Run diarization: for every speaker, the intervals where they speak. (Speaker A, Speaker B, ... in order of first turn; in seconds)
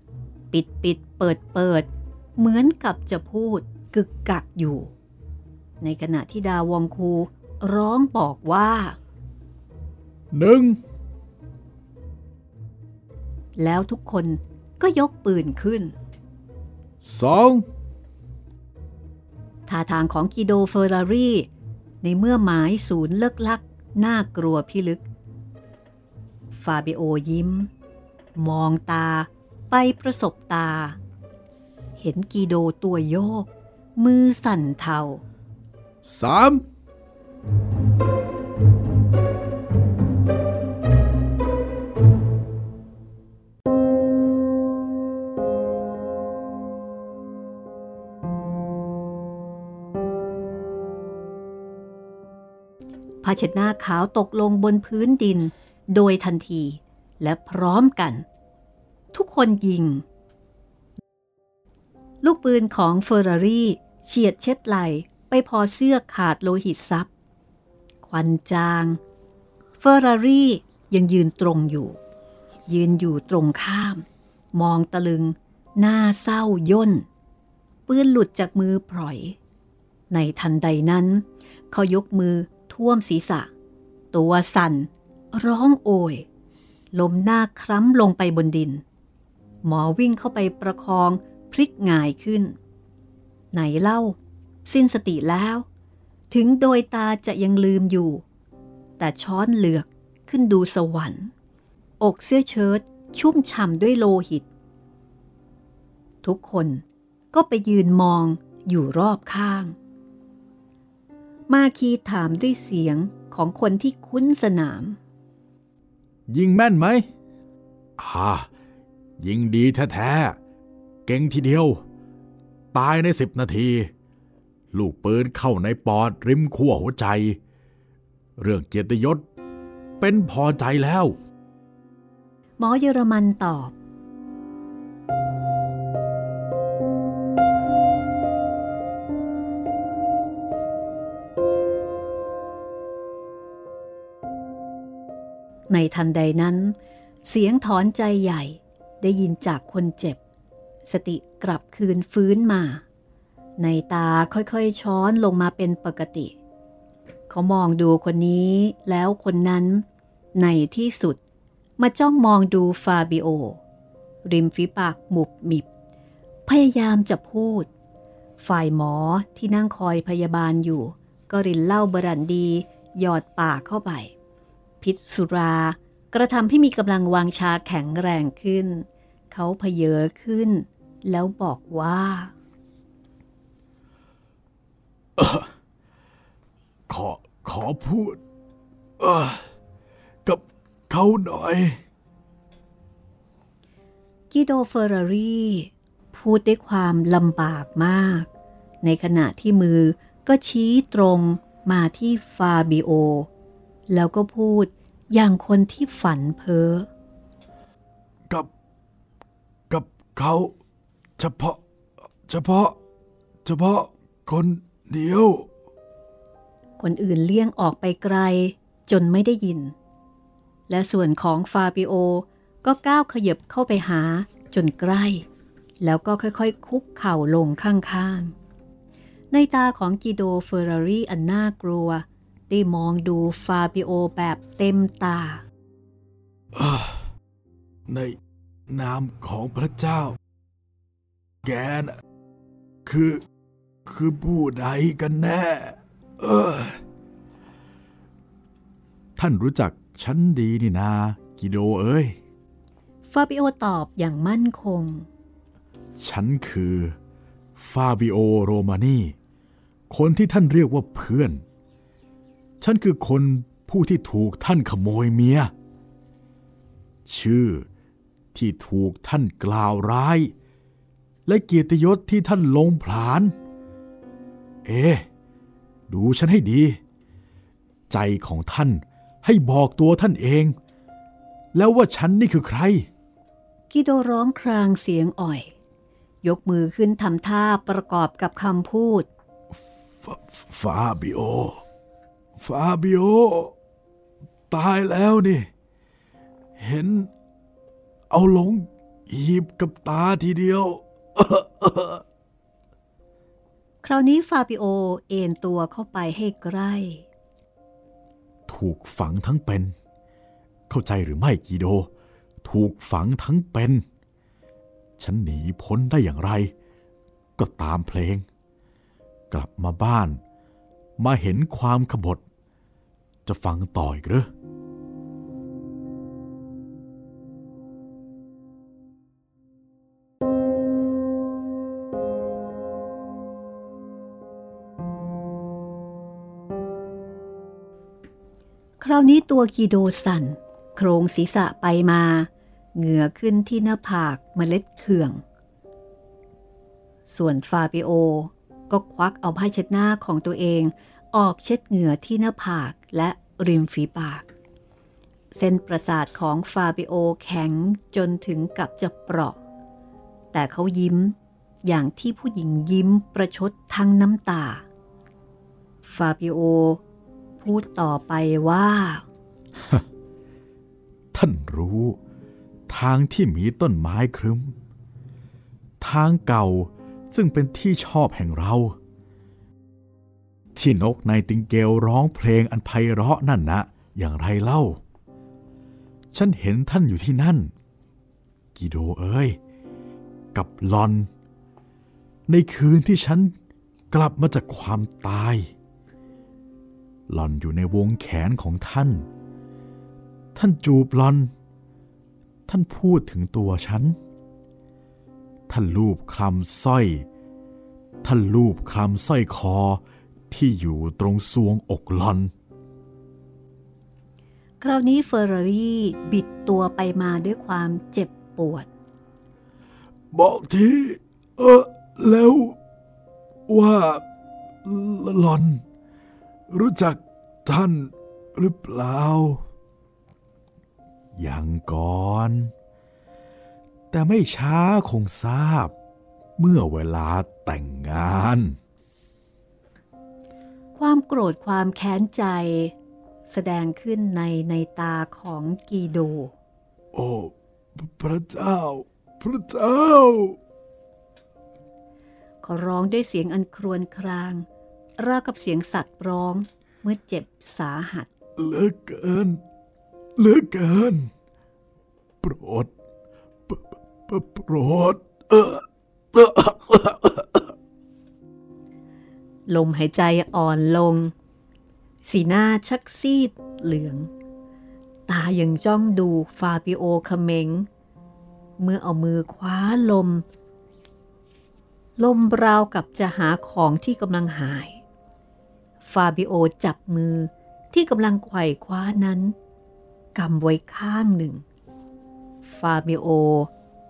Speaker A: 0.5-4.9, 5.8-9.0, 13.6-15.9, 19.7-21.5, 22.0-25.0, 26.5-27.7, 28.3-31.0, 32.0-35.2, 53.2-58.2, 59.1-60.0, 62.2-67.1, 68.0-69.0, 69.8-72.0, 72.7-77.1, 77.9-79.4, 80.1-83.5, 84.1-86.2, 86.9-88.8, 89.6-92.5, 93.5-95.7, 96.3-98.2, 99.0-101.3, 102.0-104.5, 106.2-109.8, 111.5-115.0, 132.6-133.7, 145.7-150.2, 150.8-152.8, 153.6-156.3, 157.3-161.2, 161.8-163.6, 164.2-165.7, 166.5-167.7, 168.4-174.1, 174.8-182.3, 194.3-198.3, 198.8-203.3, 203.9-206.9, 216.8-219.7, 220.7-225.2, 225.8-228.3, 229.3-235.4, 253.0-255.1, 283.7-285.5, 286.2-289.1, 303.8-307.1, 338.8-345.2, 347.1-354.3, 355.3-359.4, 360.3-364.6, 365.8-366.8, 367.4-369.1, 414.6-418.7, 440.7-442.7, 443.3-446.3, 452.4-454.4, 455.0-458.1, 469.5-471.1, 472.0-474.1, 475.1-477.7, 478.6-480.2, 482.0-484.8, 485.8-489.3, 490.1-491.4, 492.4-493.5
Speaker B: 10.3-10.8, 17.0-17.6, 36.0-36.6, 116.3-117.1, 118.0-118.5, 119.2-120.4, 121.0-121.8, 122.7-123.9, 124.7-127.4, 128.4-129.2, 130.0-131.2, 185.2-185.5, 186.9-188.2, 189.0-189.4, 190.2-191.8, 209.7-210.5, 211.2-211.6, 212.2-212.8, 213.4-215.5, 236.5-237.1, 237.9-240.2, 241.4-242.0, 242.8-243.2, 243.9-246.8, 249.2-252.2, 256.0-256.9, 257.6-259.1, 259.9-261.4, 262.6-265.5, 267.0-267.7, 268.3-270.3, 271.2-273.3, 274.6-275.1, 275.9-276.8, 277.9-280.5, 281.5-282.9, 290.0-291.6, 292.4-293.5, 294.5-295.5, 296.6-297.1, 298.1-302.0, 308.5-309.7, 310.7-311.9, 312.4-313.8, 315.0-316.5, 317.4-318.2, 319.3-320.2, 321.0-322.2, 323.2-324.3, 369.6-369.8, 371.1-372.0, 372.7-374.6, 375.8-378.8, 380.5-384.8, 386.1-387.5, 388.5-389.4, 390.3-391.1, 392.3-393.3, 393.9-395.5, 397.1-399.1, 400.3-401.3, 402.5-404.0, 405.5-407.1, 408.0-412.3, 420.1-422.6, 423.5-424.0, 424.6-425.6, 426.5-429.4, 431.1-432.5, 433.9-435.7, 436.4-438.6, 446.9-450.4, 458.4-459.4, 460.2-461.1, 462.2-462.7, 463.5-467.5